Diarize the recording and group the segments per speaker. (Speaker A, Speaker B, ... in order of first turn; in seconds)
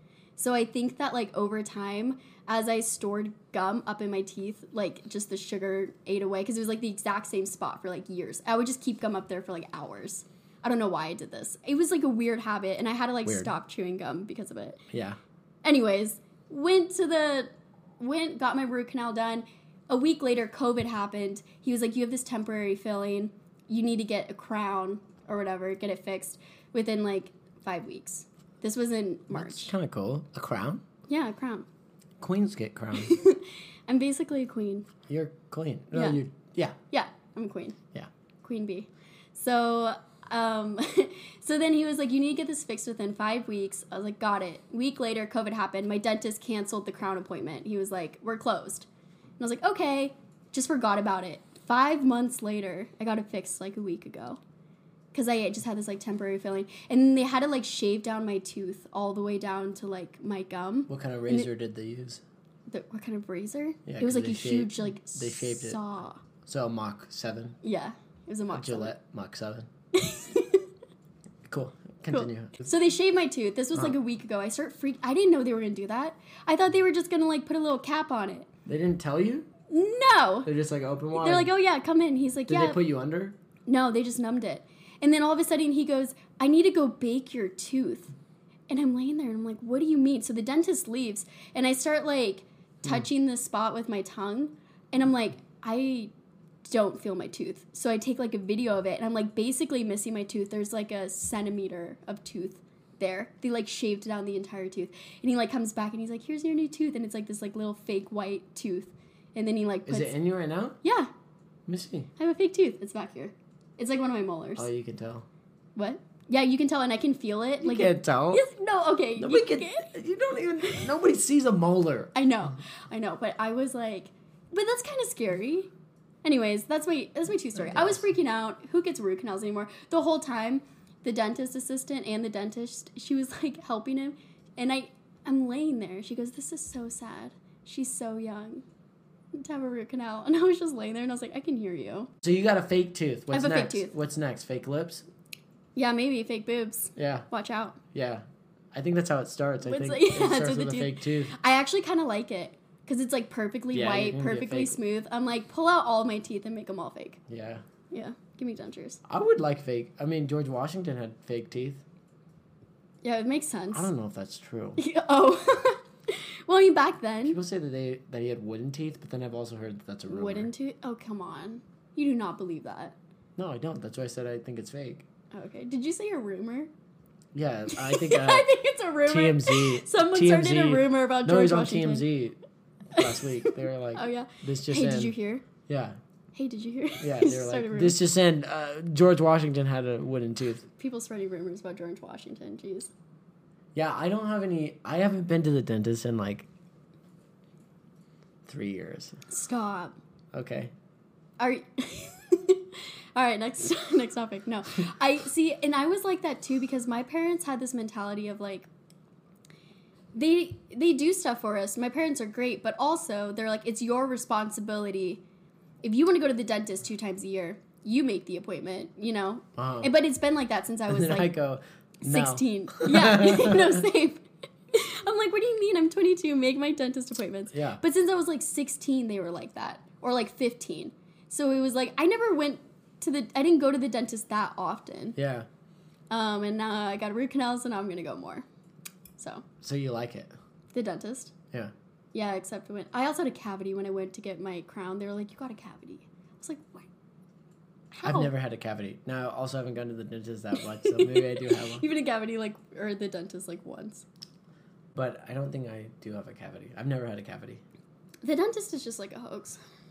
Speaker A: 0.4-14.8, 15.6-29.7, 31.1-31.6, 33.0-34.9, 35.9-36.2, 36.9-37.8, 38.4-48.9, 49.4-54.4, 55.1-61.5, 62.7-66.2, 67.6-68.9, 69.9-70.7, 72.1-78.5, 79.7-80.5, 81.1-82.8, 83.7-88.1, 88.7-96.1, 96.7-110.1, 110.8-111.1, 112.2-114.7, 115.8-119.9, 122.1-125.7, 126.2-138.6, 139.3-142.1, 143.3-143.9, 145.8-147.8, 149.6-157.2, 157.9-159.0, 163.0-163.9, 164.8-167.4, 170.1-172.9, 175.3-176.7, 177.7-182.1, 183.0-185.4, 186.3-188.0, 190.8-192.9, 199.3-199.9, 201.4-208.7, 210.1-215.2, 215.8-221.3, 222.0-235.2, 236.1-238.4, 239.2-239.4, 240.7-241.3, 242.1-246.9, 247.9-248.3, 250.6-254.1, 258.2-259.6
Speaker B: 14.9-15.2, 29.3-30.8, 32.2-33.1, 35.1-36.8, 60.9-62.2, 63.9-65.8, 66.4-67.6, 68.5-69.7, 71.5-72.7, 78.7-79.5, 80.4-81.5, 82.5-83.4, 109.9-110.8, 111.7-112.1, 114.6-115.2, 117.6-118.4, 119.2-122.1, 127.5-128.0, 142.2-145.1, 146.9-147.2, 147.9-151.3, 153.7-154.8, 157.3-157.6, 159.1-161.8, 163.7-164.8, 167.2-170.5, 173.4-175.1, 177.3-178.5, 179.1-182.4, 182.9-185.1, 185.7-186.0, 187.0-190.7, 193.7-196.5, 198.4-199.2, 200.3-200.7, 219.6-219.9, 220.9-223.8, 227.5-227.8, 235.2-235.5, 239.6-240.3, 248.0-251.8, 254.9-257.6